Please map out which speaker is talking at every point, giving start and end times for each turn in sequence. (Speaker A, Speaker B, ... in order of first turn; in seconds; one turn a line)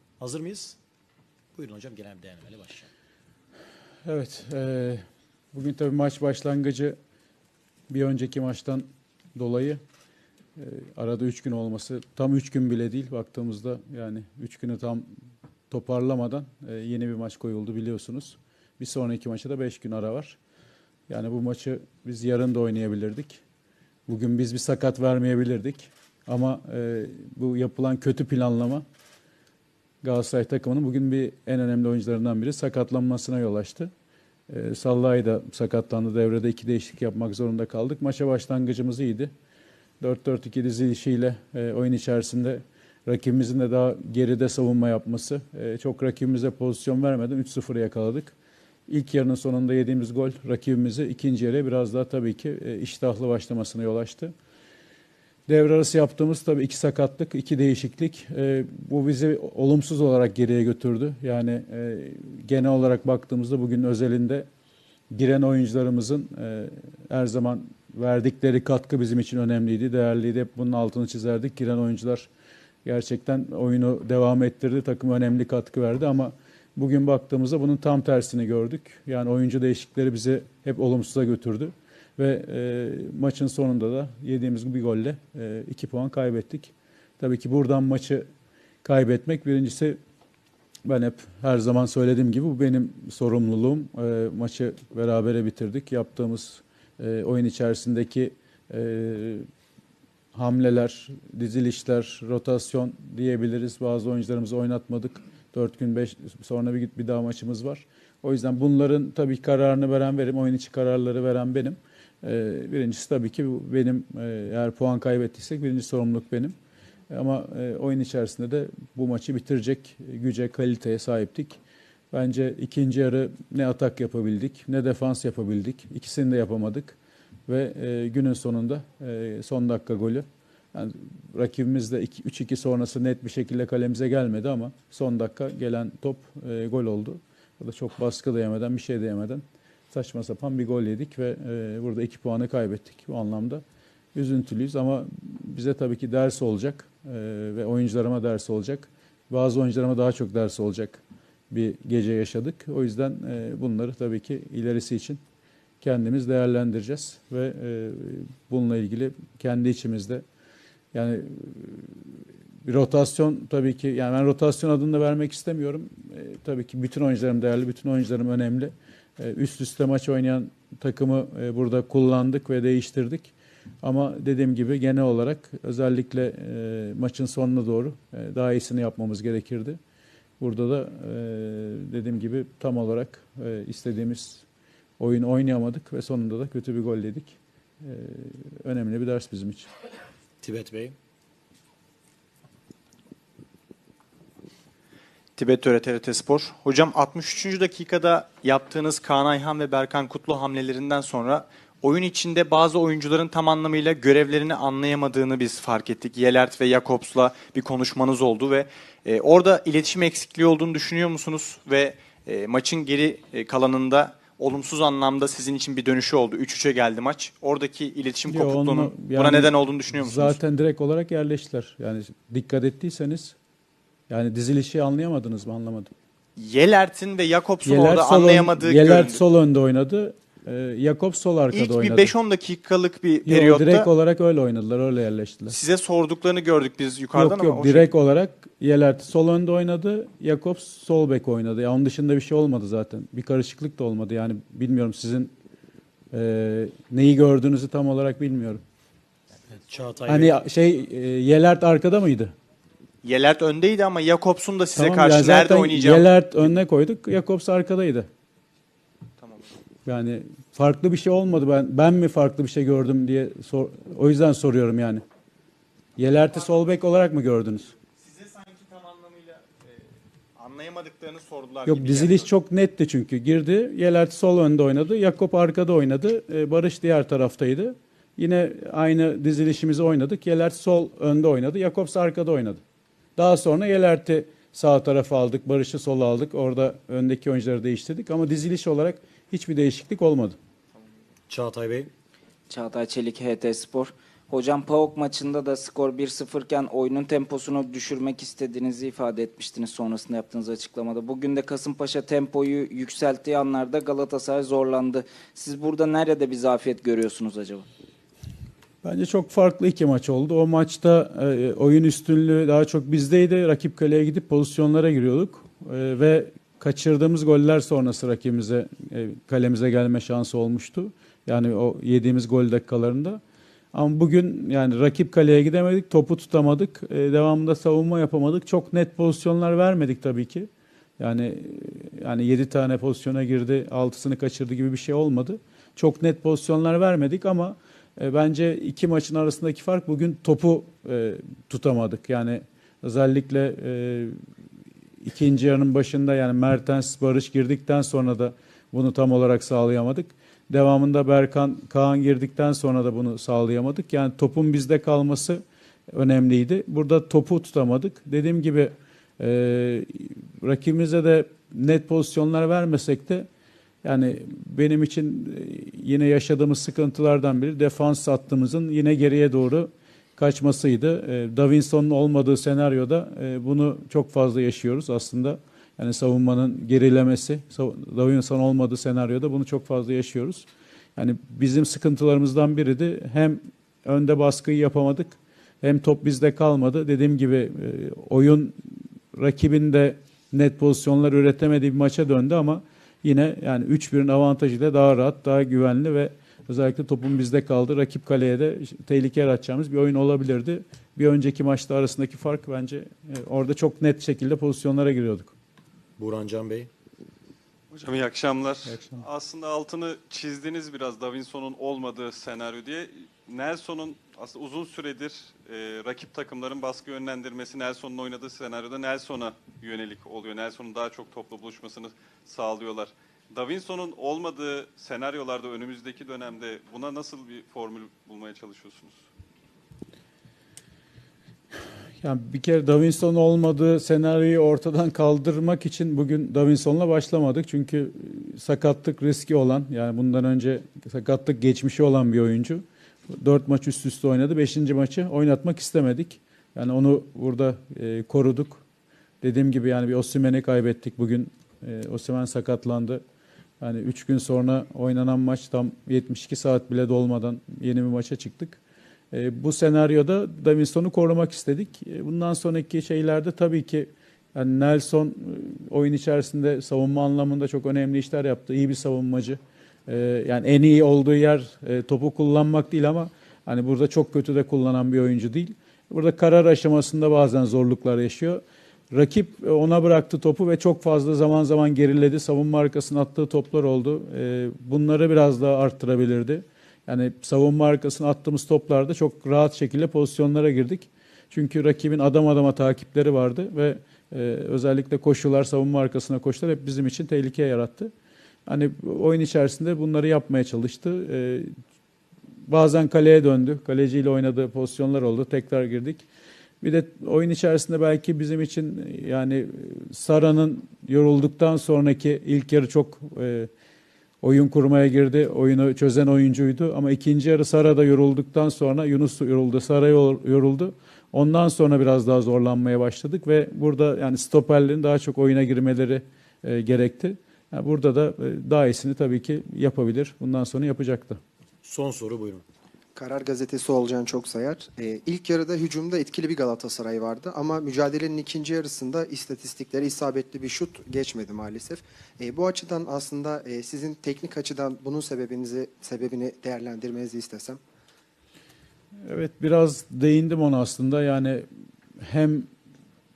Speaker A: 0.2-0.8
Speaker A: 1.5-2.9
Speaker B: 4.0-7.0
Speaker B: 7.9-9.8
Speaker B: 10.6-15.1
Speaker B: 15.7-20.4
Speaker B: 21.1-23.4
Speaker B: 24.1-28.8
Speaker B: 30.0-33.9
Speaker B: 34.5-39.3
Speaker B: 40.0-48.3
Speaker B: 48.9-54.3
Speaker B: 55.5-64.5
Speaker B: 65.1-72.3
Speaker B: 72.8-88.2
Speaker B: 88.8-90.0
Speaker B: 90.8-99.5
Speaker B: 100.3-116.5
Speaker B: 117.1-121.6
Speaker B: 122.1-143.6
Speaker B: 144.1-155.2
Speaker B: 155.8-160.2
Speaker B: 160.9-162.1
Speaker B: 162.6-179.8
Speaker B: 180.4-184.4
Speaker B: 185.0-189.7
Speaker A: 190.4-190.9
Speaker C: 195.4-220.4
Speaker B: 218.3-223.3
Speaker B: 224.1-225.9
Speaker C: 226.4-229.2
Speaker B: 227.6-232.1
Speaker C: 231.5-233.9
Speaker B: 233.2-235.6
Speaker C: 235.5-237.9
Speaker B: 237.1-245.3
Speaker B: 246.1-248.6
Speaker A: 249.5-250.4
Speaker B: 250.1-252.3
Speaker C: 253.0-256.1
Speaker B: 254.7-258.1
Speaker C: 259.2-259.5
Speaker B: 259.9-265.0
Speaker B: 265.9-267.7
Speaker C: 267.9-269.5
Speaker C: 270.4-272.3
Speaker B: 271.6-282.6
Speaker B: 283.2-290.4
Speaker A: 291.3-291.9
Speaker D: 292.5-307.6
Speaker B: 308.8-323.2
Speaker B: 323.7-344.1
Speaker B: 345.0-363.3
Speaker B: 363.8-388.6
Speaker B: 389.1-405.3
Speaker A: 406.0-406.7
Speaker E: 407.7-429.0
Speaker B: 432.0-448.6
Speaker B: 449.2-453.0
Speaker B: 453.6-458.6
Speaker B: 459.1-497.9
Speaker B: 498.5-501.5
Speaker B: 502.5-506.0
Speaker B: 506.6-513.5
Speaker B: 514.2-531.2
Speaker A: 531.6-532.4
Speaker F: 532.9-547.6
Speaker B: 549.0-551.4
Speaker B: 552.0-552.5